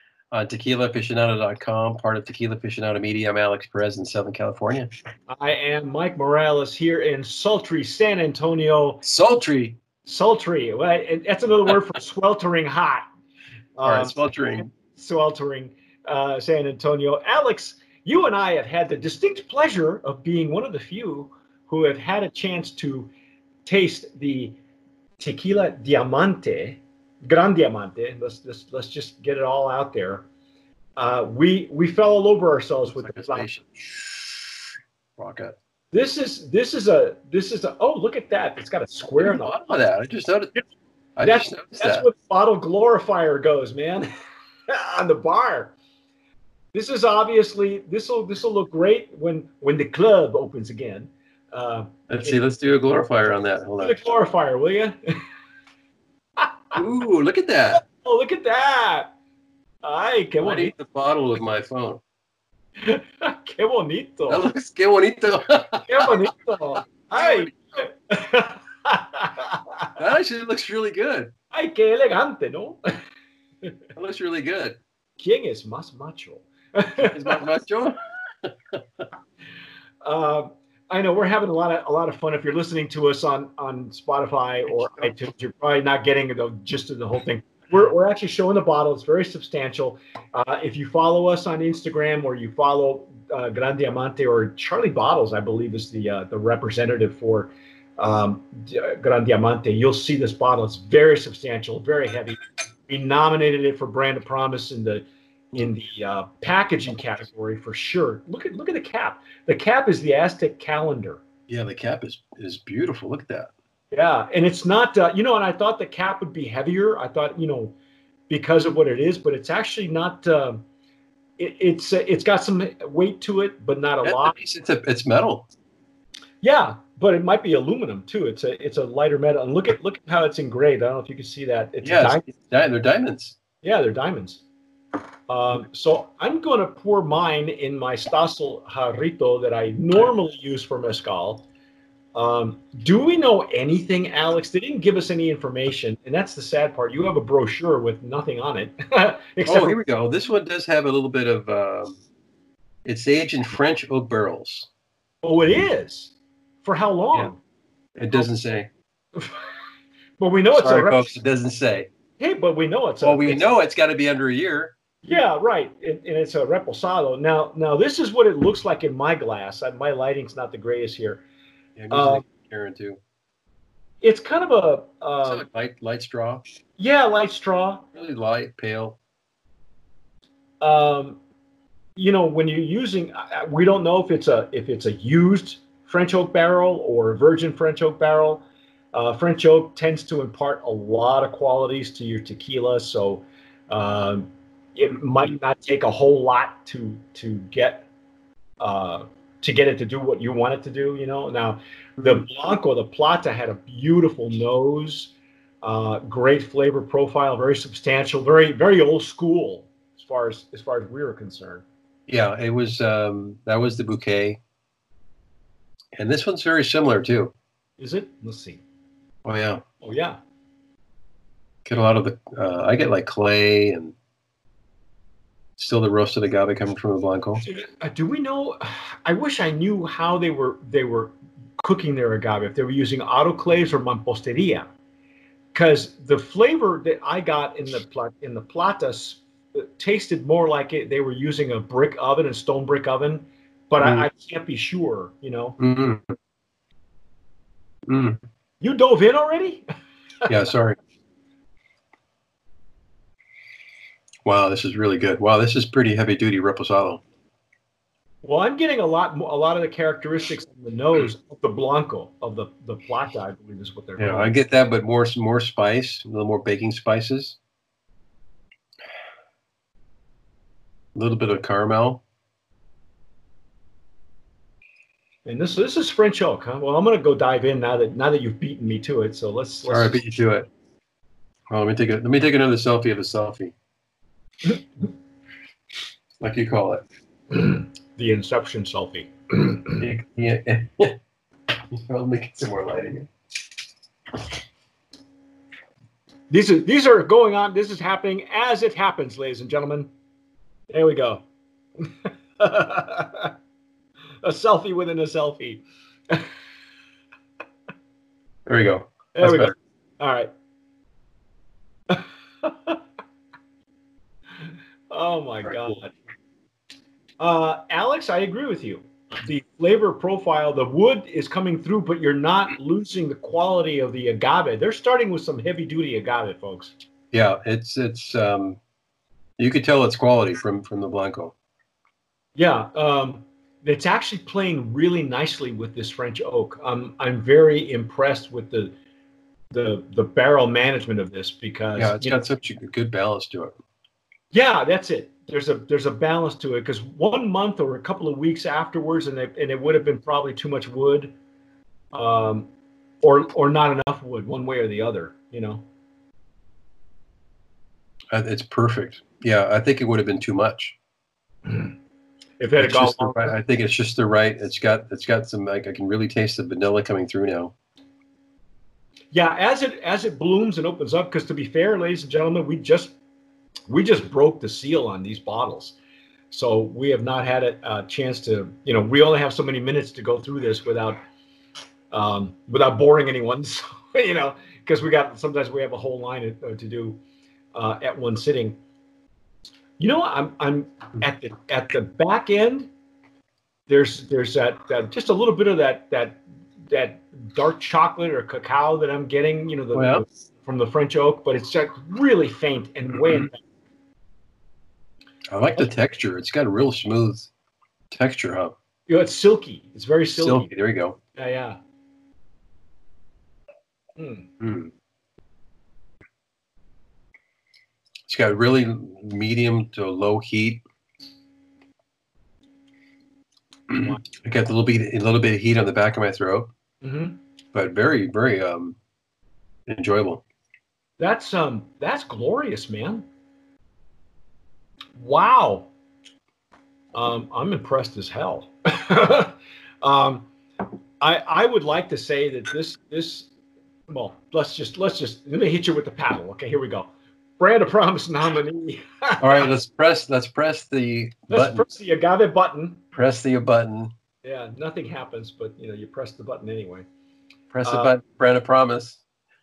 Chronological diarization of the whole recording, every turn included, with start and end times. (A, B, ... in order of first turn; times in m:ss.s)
0:00.3-0:04.9 A
0:05.3-0:09.0 B
0:09.0-0:09.8 A
0:10.0-0:13.1 B
0:13.8-0:23.1 B
0:13.8-0:14.7 A
0:23.6-0:24.6 B
0:25.2-0:30.3 B
0:31.0-0:33.5 B
0:32.9-0:34.5 A
0:35.2-0:35.6 A
0:35.9-0:39.5 B
0:39.2-0:40.6 A
0:41.2-0:42.1 A
0:41.2-0:44.1 B
0:44.7-0:45.7 B
0:46.7-0:52.4 B
0:52.1-0:54.0 A
0:53.8-0:55.0 B
0:56.7-0:57.8 A
0:57.8-0:59.1 B
0:59.8-1:00.7 B
1:00.4-1:02.0 A
1:02.8-1:04.5 B
1:04.3-1:06.1 A
1:05.9-1:09.9 B
1:07.1-1:07.5 A
1:10.0-1:11.3 A
1:11.5-1:12.8 B
1:14.0-1:14.8 A
1:15.2-1:17.4 B
1:17.0-1:18.8 A
1:20.0-1:51.2 B
1:51.5-1:53.5 A
1:53.9-1:57.8 B
1:58.3-2:00.6 B
2:01.4-2:04.4 B
2:04.0-2:05.5 A
2:06.4-2:12.2 B
2:11.8-2:13.4 A
2:13.6-2:14.4 B
2:15.3-2:21.5 B
2:22.2-2:29.8 B
2:29.4-2:32.0 A
2:32.8-2:34.7 A
2:35.2-2:37.4 B
2:38.0-2:38.7 A
2:40.2-2:41.2 B
2:40.5-2:41.9 A
2:42.2-2:43.4 B
2:43.0-2:44.7 A
2:45.0-2:51.2 B
2:51.8-2:53.0 A
2:51.9-2:52.2 B
2:54.0-2:55.5 B
2:55.2-2:56.5 A
2:56.8-2:57.8 B
2:57.9-2:59.0 A
3:00.6-3:01.2 B
3:02.0-3:17.9 B
3:18.6-3:31.6 B
3:32.1-3:34.4 A
3:36.0-3:37.3 A
3:37.8-3:38.6 B
3:39.2-3:39.6 A
3:39.8-3:40.2 B
3:41.6-3:43.9 A
3:45.6-3:47.4 A
3:47.4-3:54.7 B
3:55.5-4:05.6 B
4:05.6-4:06.0 A
4:07.9-4:08.2 A
4:08.6-4:09.6 B
4:10.3-4:10.8 A
4:14.2-4:17.0 A
4:18.2-4:24.4 B
4:24.0-4:27.4 A
4:30.9-4:32.0 A
4:35.2-4:40.0 B
4:39.6-4:40.5 A
4:41.5-4:43.5 A
4:46.2-4:46.8 A
4:47.3-4:49.8 B
4:49.8-4:51.0 A
4:51.7-4:53.1 A
4:56.3-4:59.9 B
5:00.7-5:01.2 B
5:01.8-5:03.3 B
5:04.2-5:06.3 B
5:08.5-5:09.5 A
5:09.2-5:10.3 B
5:11.9-5:12.8 B
5:14.9-5:15.9 B
5:17.2-5:26.7 B
5:27.1-5:28.6 A
5:29.4-5:31.3 A
5:32.4-5:38.7 B
5:39.5-5:42.2 B
5:41.8-5:43.6 A
5:44.3-5:51.1 B
5:51.9-5:52.5 B
5:53.0-5:55.6 B
5:58.1-6:00.8 A
6:01.5-6:01.8 B
6:02.4-6:03.4 B
6:02.6-6:07.5 A
6:09.1-6:12.9 B
6:13.7-6:15.8 B
6:16.3-6:21.0 B
6:21.9-6:27.0 B
6:27.5-6:28.6 B
6:29.8-6:32.7 B
6:33.7-6:43.4 B
6:39.7-6:40.0 A
6:45.3-6:47.3 A
6:47.9-6:48.5 A
6:48.9-6:50.5 B
6:50.1-6:51.0 A
6:51.2-6:51.6 B
6:54.0-6:54.3 B
6:54.4-6:54.7 A
6:58.1-7:00.6 A
7:03.7-7:06.5 A
7:06.8-7:07.2 B
7:07.5-7:08.8 A
7:09.7-7:10.2 A
7:11.0-7:13.0 B
7:15.0-7:15.7 B
7:16.9-7:20.3 B
7:21.0-7:23.3 B
7:23.9-7:29.5 B
7:29.2-7:31.7 A
7:31.3-7:32.8 B
7:32.9-7:33.9 A
7:34.2-7:36.8 B
7:37.5-7:39.0 A
7:37.6-7:37.9 B